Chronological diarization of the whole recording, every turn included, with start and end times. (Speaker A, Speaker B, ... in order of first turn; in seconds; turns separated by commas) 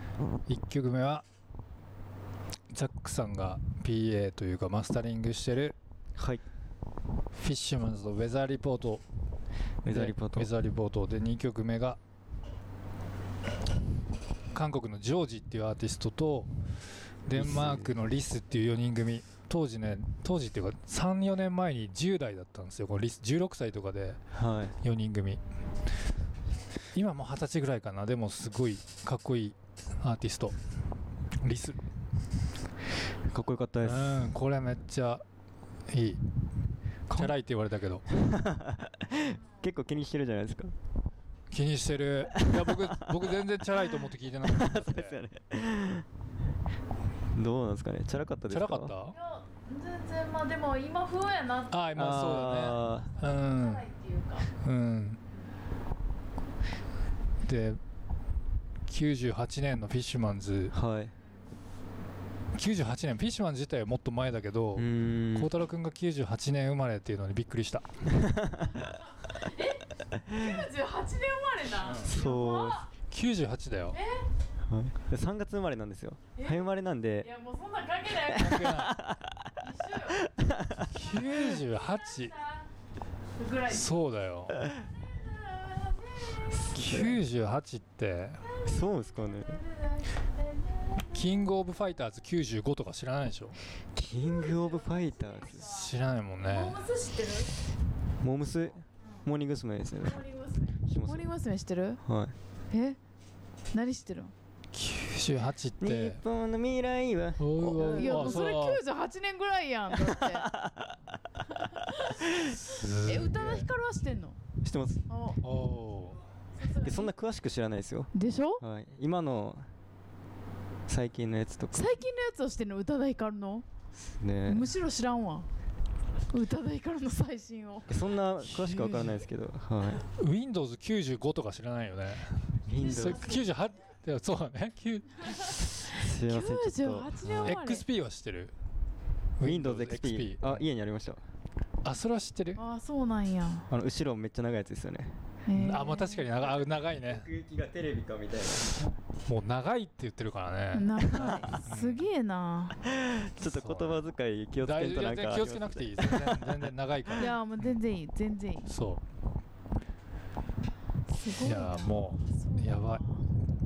Speaker A: 0.5-1.2, Speaker A: 2.7-5.8, Speaker B: 6.2-6.4, Speaker A: 7.3-9.0, Speaker B: 9.8-10.5, Speaker A: 9.9-12.0, Speaker A: 14.5-16.5, Speaker A: 17.3-24.2, Speaker B: 17.4-18.0, Speaker B: 24.3-24.8, Speaker A: 24.8-25.4, Speaker A: 26.9-30.6, Speaker A: 31.4-31.8, Speaker B: 33.3-34.4, Speaker A: 33.8-35.2, Speaker A: 35.9-36.2, Speaker B: 37.1-37.3, Speaker A: 37.1-38.0, Speaker B: 38.1-40.7, Speaker A: 41.5-45.2, Speaker B: 42.3-46.1, Speaker B: 47.3-48.9, Speaker A: 48.5-49.2, Speaker C: 49.1-52.0, Speaker A: 51.7-53.9, Speaker B: 51.9-53.2, Speaker C: 53.2-54.5, Speaker A: 54.5-55.2, Speaker A: 57.4-57.8, Speaker A: 58.9-60.7, Speaker B: 60.7-61.1, Speaker A: 62.5-67.9, Speaker B: 64.8-65.5, Speaker B: 68.2-68.8, Speaker C: 69.2-72.9, Speaker A: 71.8-72.1, Speaker B: 72.0-72.9, Speaker A: 73.0-74.0, Speaker C: 73.9-74.3, Speaker B: 74.7-77.3, Speaker C: 76.4-76.6, Speaker C: 77.2-78.8, Speaker A: 78.3-79.0, Speaker B: 78.4-79.5, Speaker C: 79.6-80.2, Speaker B: 80.2-80.9, Speaker A: 80.8-82.4, Speaker C: 80.9-82.7, Speaker C: 83.4-84.0, Speaker A: 83.7-84.7, Speaker C: 84.7-86.7, Speaker B: 86.5-87.2, Speaker A: 86.7-88.5, Speaker C: 88.4-91.4, Speaker B: 88.7-89.6, Speaker A: 91.1-93.6, Speaker B: 93.9-95.9, Speaker C: 94.4-95.5, Speaker A: 95.5-96.8, Speaker C: 96.4-97.5, Speaker B: 98.2-100.2, Speaker C: 100.0-102.0, Speaker B: 100.8-101.3, Speaker B: 102.0-102.4, Speaker C: 102.7-103.0, Speaker C: 103.7-104.3, Speaker A: 104.7-106.2, Speaker B: 105.8-108.5, Speaker A: 107.4-108.8, Speaker C: 107.9-110.5, Speaker B: 109.9-111.0, Speaker C: 111.7-114.4, Speaker A: 112.4-113.7, Speaker B: 114.6-115.1, Speaker C: 115.1-115.4, Speaker A: 115.4-116.2, Speaker C: 116.6-117.1, Speaker B: 116.8-119.7, Speaker C: 118.1-118.6, Speaker B: 120.9-122.0, Speaker C: 121.7-123.7, Speaker B: 124.2-124.7, Speaker C: 124.5-125.5, Speaker C: 126.3-128.0, Speaker B: 127.9-130.1, Speaker A: 128.6-129.0, Speaker A: 130.1-135.4, Speaker B: 132.7-133.4, Speaker C: 133.0-133.4, Speaker B: 135.7-137.6, Speaker C: 136.0-137.9, Speaker A: 137.4-138.5, Speaker A: 139.4-140.6, Speaker B: 139.4-141.2, Speaker A: 141.8-142.6, Speaker C: 142.6-143.7, Speaker B: 143.7-145.2, Speaker C: 145.5-146.3, Speaker A: 145.6-147.3, Speaker B: 146.4-148.9, Speaker A: 149.3-152.1, Speaker C: 150.7-152.8, Speaker B: 151.2-151.5, Speaker B: 152.8-157.2, Speaker A: 153.4-154.0, Speaker A: 154.6-157.7, Speaker C: 157.2-158.7, Speaker A: 158.7-159.0, Speaker C: 161.1-163.2, Speaker A: 161.4-163.0